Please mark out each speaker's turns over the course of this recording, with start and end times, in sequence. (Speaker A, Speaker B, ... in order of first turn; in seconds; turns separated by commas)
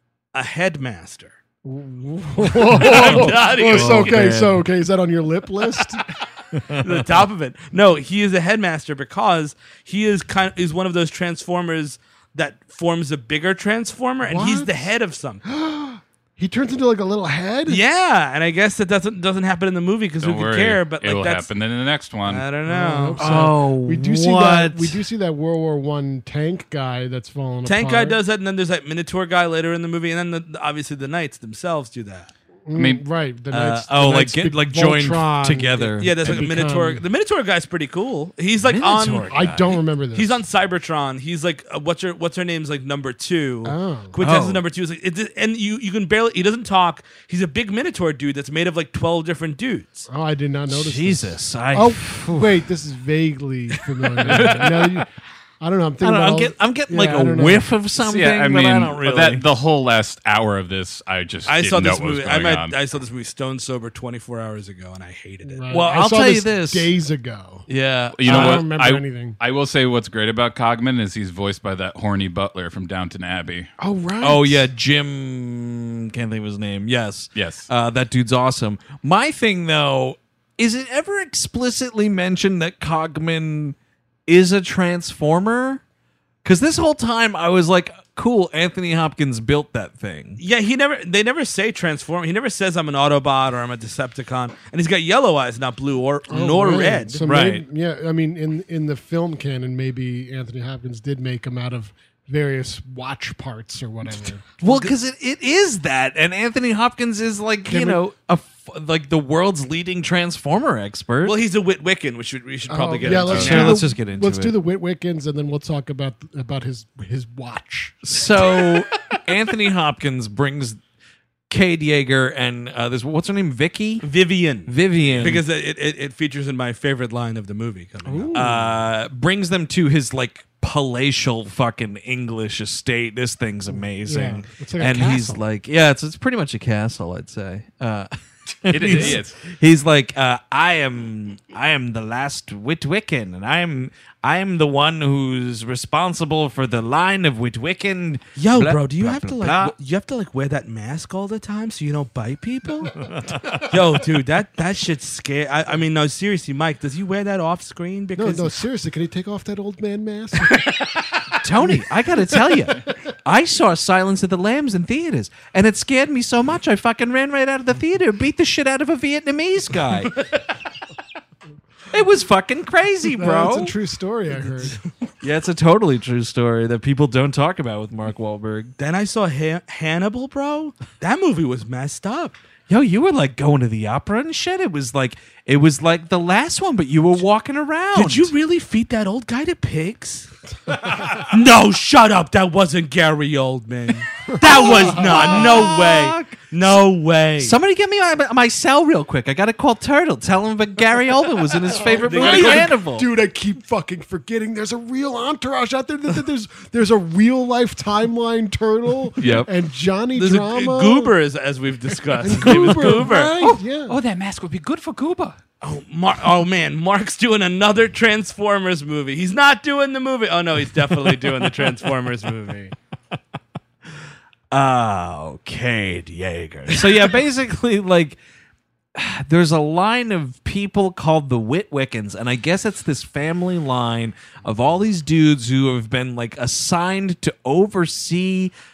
Speaker A: 0.3-1.4, Speaker B: 1.6-6.1, Speaker A: 2.6-4.4, Speaker C: 2.8-4.7, Speaker C: 6.6-7.0, Speaker A: 6.8-15.4, Speaker B: 14.2-14.9, Speaker B: 15.4-17.8, Speaker A: 17.7-21.5, Speaker D: 20.2-22.5, Speaker A: 22.2-23.5, Speaker B: 22.7-28.2, Speaker C: 23.2-25.0, Speaker A: 27.6-32.3, Speaker B: 32.7-37.0, Speaker D: 32.7-33.0, Speaker C: 33.5-36.4, Speaker A: 36.0-39.4, Speaker C: 38.6-39.8, Speaker B: 39.3-40.4, Speaker A: 40.1-50.1, Speaker B: 43.6-44.2, Speaker C: 44.2-44.6, Speaker B: 50.1-55.1, Speaker C: 50.7-52.6, Speaker D: 54.3-54.9, Speaker B: 55.6-57.7, Speaker C: 56.0-59.5, Speaker D: 58.0-62.7, Speaker A: 61.5-65.7, Speaker B: 65.5-67.7, Speaker C: 65.7-66.9, Speaker C: 67.7-68.7, Speaker D: 68.2-73.7, Speaker B: 68.3-69.4, Speaker B: 73.8-74.7, Speaker C: 74.2-83.8, Speaker D: 77.3-77.7, Speaker C: 84.3-85.8, Speaker C: 86.4-90.4, Speaker A: 90.4-97.3, Speaker B: 96.3-104.4, Speaker C: 97.2-97.7, Speaker C: 104.6-111.4, Speaker B: 107.7-108.0, Speaker A: 111.2-113.9, Speaker B: 112.7-118.0, Speaker C: 113.1-114.6, Speaker D: 113.2-113.7, Speaker C: 118.0-120.8, Speaker C: 121.5-124.1, Speaker A: 124.0-128.5, Speaker C: 124.7-125.4, Speaker B: 128.0-128.6, Speaker C: 128.3-138.1, Speaker B: 133.7-135.4, Speaker C: 138.6-149.8, Speaker D: 138.7-139.4, Speaker A: 148.4-158.6, Speaker B: 158.2-160.7, Speaker A: 160.5-161.0, Speaker C: 161.4-170.2, Speaker B: 161.6-162.9, Speaker C: 171.9-173.8, Speaker B: 173.1-174.8, Speaker C: 175.2-178.7, Speaker A: 178.8-182.4, Speaker C: 182.7-188.3, Speaker A: 187.9-190.3, Speaker A: 191.1-197.6, Speaker B: 194.3-195.6, Speaker C: 194.4-196.4, Speaker C: 197.4-203.1, Speaker B: 201.7-211.2, Speaker A: 202.0-202.8, Speaker C: 209.2-209.5, Speaker D: 209.2-209.5, Speaker A: 210.2-213.4, Speaker B: 212.2-214.0, Speaker D: 213.4-215.4, Speaker A: 215.6-222.7, Speaker C: 224.5-228.2, Speaker C: 228.9-238.5